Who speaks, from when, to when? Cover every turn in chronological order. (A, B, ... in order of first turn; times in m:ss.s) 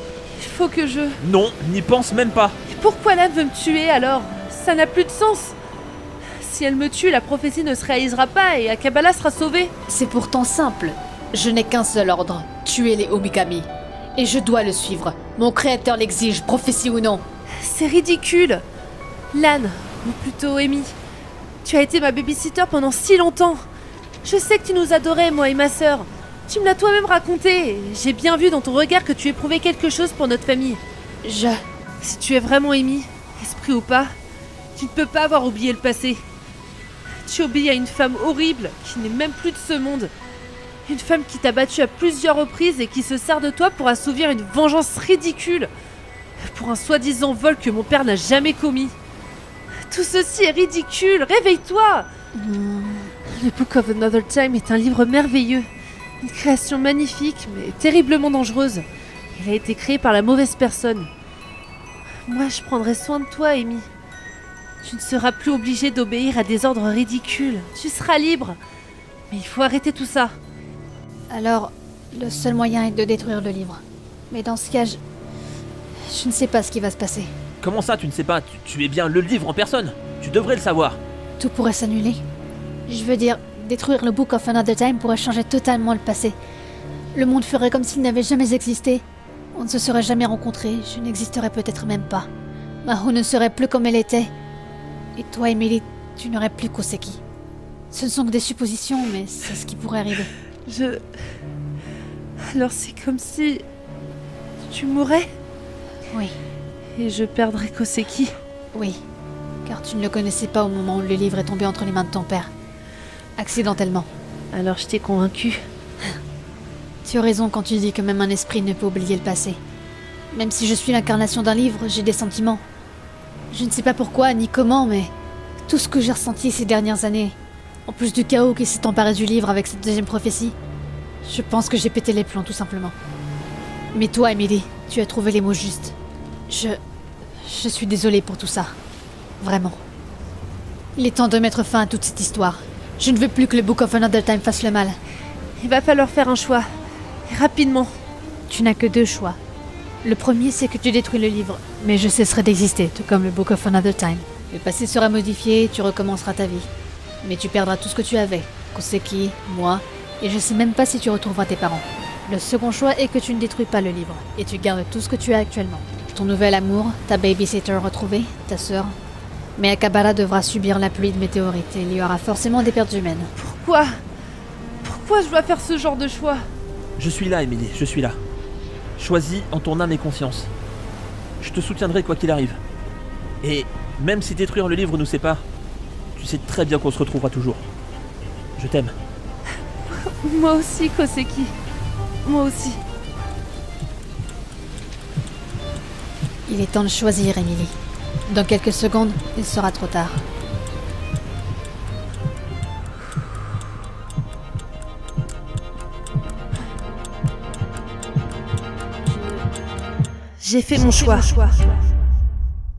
0:00.3-0:01.2 A
0:01.2-0:02.6 B
0:02.7-0:05.5 A
0:06.4-0:09.7 A
0:09.9-0:17.2 C
0:17.6-0:18.6 A
0:19.3-0:21.0 A
0:21.6-0:23.6 A
0:24.2-0:30.8 A
0:31.2-0:31.6 C
0:32.0-0:34.1 A
0:34.8-0:36.2 A
0:37.2-0:40.1 A
0:40.9-0:45.7 A
0:46.4-0:49.0 A
0:49.9-0:52.1 A
0:52.3-0:53.1 C
0:53.3-0:55.7 A
0:56.2-1:01.1 A
1:02.2-1:03.9 A
1:04.8-1:08.6 A
1:09.3-1:10.4 A
1:11.3-1:15.0 C
1:16.1-1:17.3 C
1:17.6-1:21.0 B
1:21.4-1:22.2 C
1:22.9-1:26.4 C
1:27.1-1:32.3 C
1:32.8-1:34.3 C
1:35.2-1:37.2 C
1:37.9-1:40.3 C
1:40.7-1:41.0 A
1:42.4-1:43.6 A
1:44.7-1:45.3 A
1:47.0-1:48.4 A
1:48.7-1:49.0 C
1:49.6-1:52.5 C
1:53.4-1:54.1 C
1:54.5-1:55.6 A
1:57.0-1:59.6 C
2:00.3-2:02.6 C
2:03.5-2:05.1 C
2:05.6-2:07.4 C
2:07.9-2:10.6 C
2:11.2-2:13.0 C
2:13.9-2:15.9 C
2:16.5-2:16.8 C
2:17.4-2:18.8 C
2:19.4-2:19.8 C
2:21.0-2:25.0 C
2:25.6-2:26.6 A
2:27.3-2:28.0 A
2:28.5-2:29.4 C
2:30.0-2:36.7 C
2:37.2-2:49.0 C
2:49.6-2:53.3 C
2:53.4-2:53.9 A
2:54.8-2:56.4 A
2:57.0-2:58.2 B
2:59.0-3:00.5 B
3:01.4-3:02.6 B
3:03.4-3:05.4 B
3:06.1-3:07.6 B
3:08.6-3:08.9 B
3:10.0-3:11.5 A
3:12.2-3:12.8 A
3:16.5-3:17.7 C
3:18.3-3:20.2 C
3:30.4-3:31.7 A